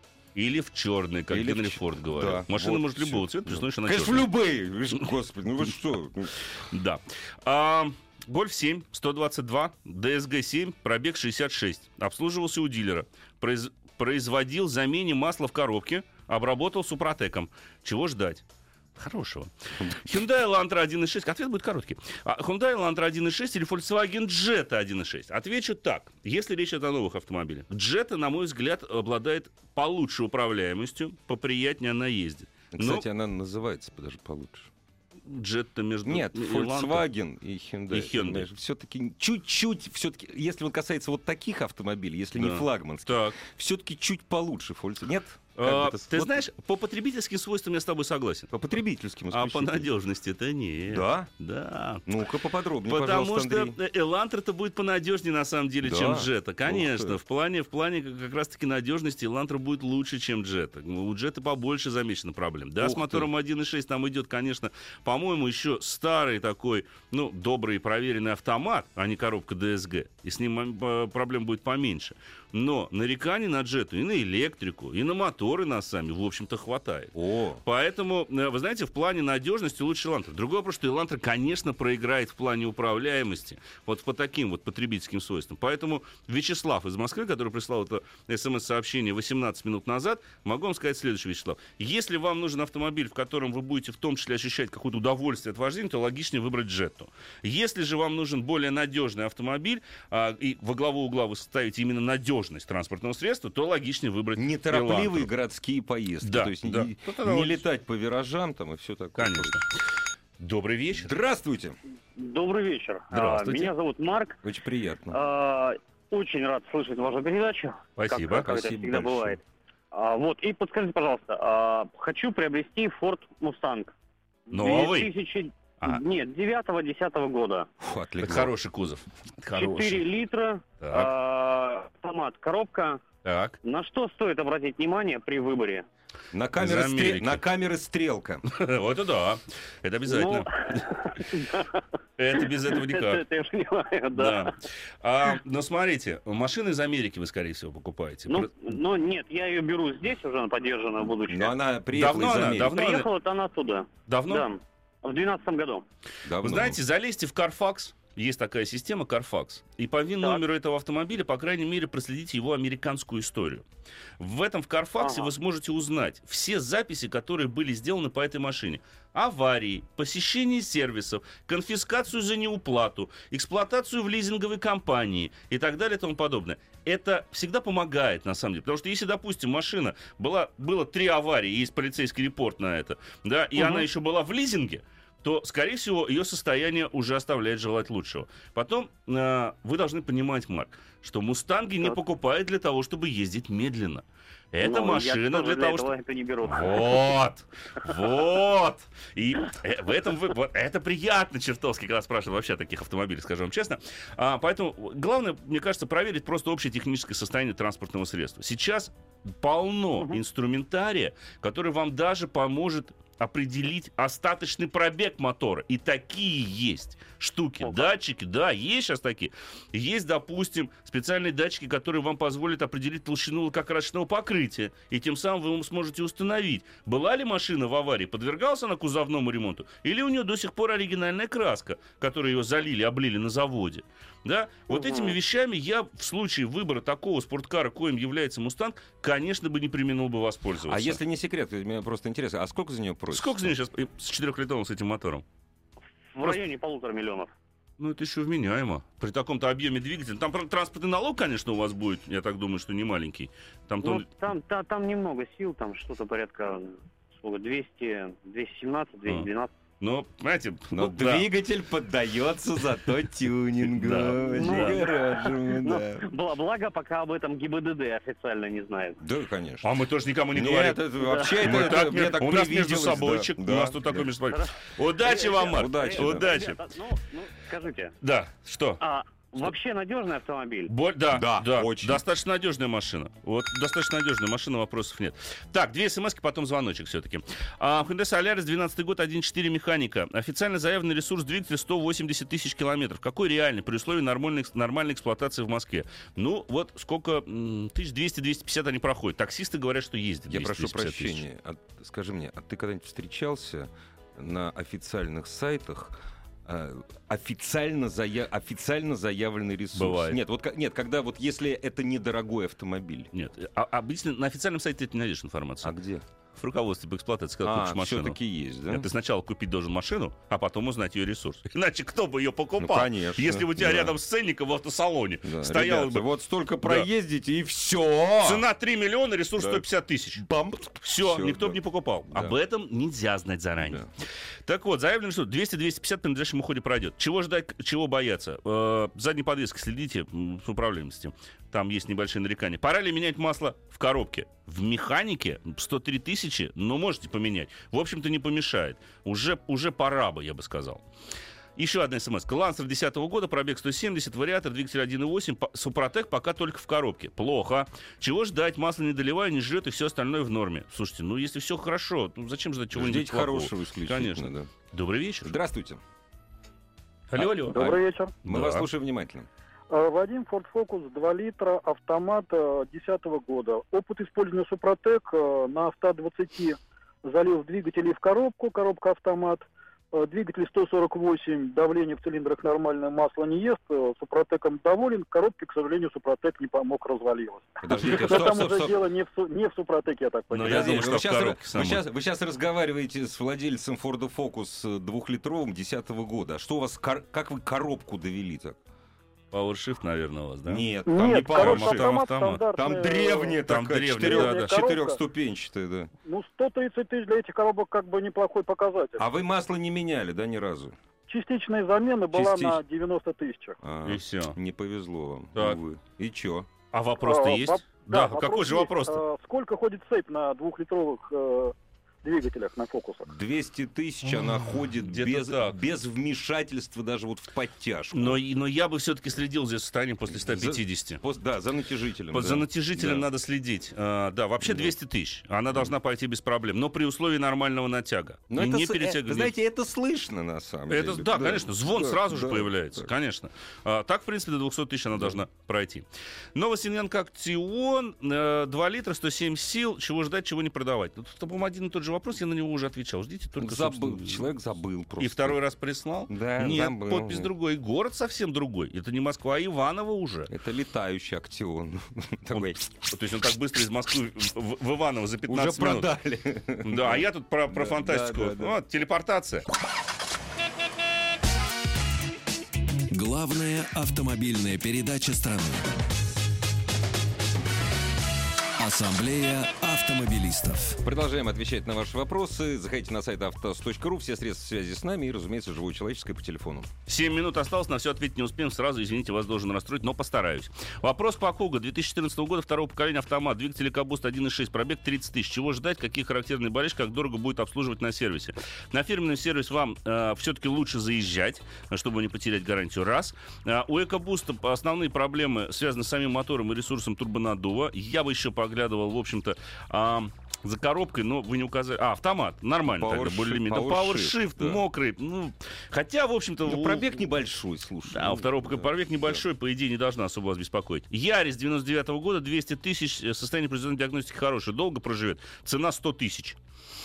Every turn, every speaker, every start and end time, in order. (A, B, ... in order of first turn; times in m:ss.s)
0:00.3-0:04.3 A
0:01.3-0:06.4 B
0:06.6-0:18.4 A
0:19.0-0:33.0 A
0:32.7-0:34.7 B
0:35.2-0:37.1 A
0:36.0-0:46.4 B
0:37.9-0:38.5 A
0:42.3-0:43.4 A
0:45.6-0:48.5 A
0:48.5-0:49.9 B
0:49.3-0:52.0 A
0:50.9-0:51.3 B
0:52.0-0:53.8 B
0:52.8-1:45.3 A
0:55.8-0:57.2 B
1:02.8-1:03.3 B
1:17.1-1:17.6 B
1:44.4-1:49.6 B
1:46.2-1:47.6 A
1:49.2-1:49.8 A
1:50.4-1:51.2 A
1:50.9-1:51.8 B
1:52.2-1:54.4 C
1:53.1-1:53.7 A
1:54.4-1:55.2 B
1:55.1-1:59.4 C
1:58.0-1:58.5 A
1:58.3-1:59.4 B
1:59.9-2:03.9 C
2:04.5-2:05.1 A
2:04.5-2:07.7 C
2:07.8-2:08.5 B
2:08.2-2:10.0 A
2:09.5-2:13.0 C
2:10.8-2:11.1 A
2:13.2-2:13.6 A
2:13.6-2:15.8 C
2:16.3-2:18.4 B
2:16.6-2:17.4 A
2:18.5-2:20.8 A
2:20.1-2:24.5 C
2:22.2-2:23.2 A
2:24.1-2:28.5 A
2:28.3-2:31.6 C
2:31.3-2:32.8 B
2:31.9-2:33.1 A
2:32.5-2:35.8 C
2:34.1-2:34.4 A
2:36.2-2:36.8 B
2:36.4-2:43.6 A
2:44.2-3:15.9 A
2:45.0-2:45.3 C
3:03.6-3:03.8 C
3:14.6-3:17.0 C
3:16.4-4:01.0 A
3:37.6-3:37.9 C
3:54.7-3:55.2 C
4:00.7-4:03.5 B
4:03.1-4:05.2 A
4:06.1-4:07.3 C
4:07.8-4:14.1 A
4:13.8-4:19.5 C
4:19.8-4:21.3 A
4:20.7-4:26.1 B
4:23.6-4:24.8 A
4:24.1-4:29.0 C
4:29.0-4:29.7 B
4:29.6-4:36.6 A
4:30.3-4:34.1 B
4:31.0-4:31.5 C
4:34.3-4:37.9 C
4:35.5-4:36.3 B
4:38.0-4:38.8 A
4:38.8-4:40.7 C
4:40.7-5:01.2 A
4:41.1-4:42.0 B
5:00.3-5:13.1 B
5:09.7-5:10.2 A
5:13.1-5:15.7 A
5:15.6-5:16.0 B
5:16.3-5:18.2 A
5:17.4-5:18.9 B
5:18.7-5:26.1 A
5:22.6-5:24.0 B
5:25.2-5:28.4 B
5:28.2-5:30.2 A
5:29.4-5:32.4 B
5:30.8-5:33.8 A
5:33.6-5:33.9 B
5:34.4-5:50.8 A
5:51.6-6:05.3 A
6:02.7-6:04.5 B
6:05.2-6:05.8 B
6:07.1-6:07.7 A
6:07.2-6:09.3 B
6:07.5-6:08.1 D
6:08.2-6:08.7 A
6:09.7-6:30.9 D
6:27.6-6:28.8 B
6:30.3-6:31.8 A
6:30.4-6:38.6 B
6:39.3-6:40.6 A
6:40.4-6:45.9 B
6:40.9-6:43.4 D
6:41.2-6:42.4 A
6:43.4-6:44.4 A
6:44.0-6:45.0 D
6:46.0-6:49.0 D
6:49.0-6:50.7 B
6:51.1-6:53.6 D
6:52.1-6:52.6 B
6:53.6-6:56.5 B
6:53.8-6:54.4 A
6:56.7-6:59.0 A
6:57.0-7:03.1 D
7:03.0-7:08.2 B
7:04.8-7:05.6 A
7:07.9-7:11.0 A
7:10.1-7:13.0 B
7:12.1-7:19.3 A
7:14.4-7:14.7 B
7:18.3-7:22.9 B
7:20.7-7:34.3 A
7:24.9-7:25.2 B
7:33.4-7:35.4 B
7:35.0-7:40.3 A
7:36.1-7:37.3 B
7:40.3-7:42.6 B
7:42.3-7:45.9 A
7:45.3-7:48.6 B
7:46.6-7:49.4 A
7:52.9-7:55.7 E
7:58.6-8:00.8 E
8:00.8-8:06.7 B
8:06.9-8:36.9 A
8:32.6-8:34.6 B
8:36.4-8:39.2 B
8:37.9-8:46.4 A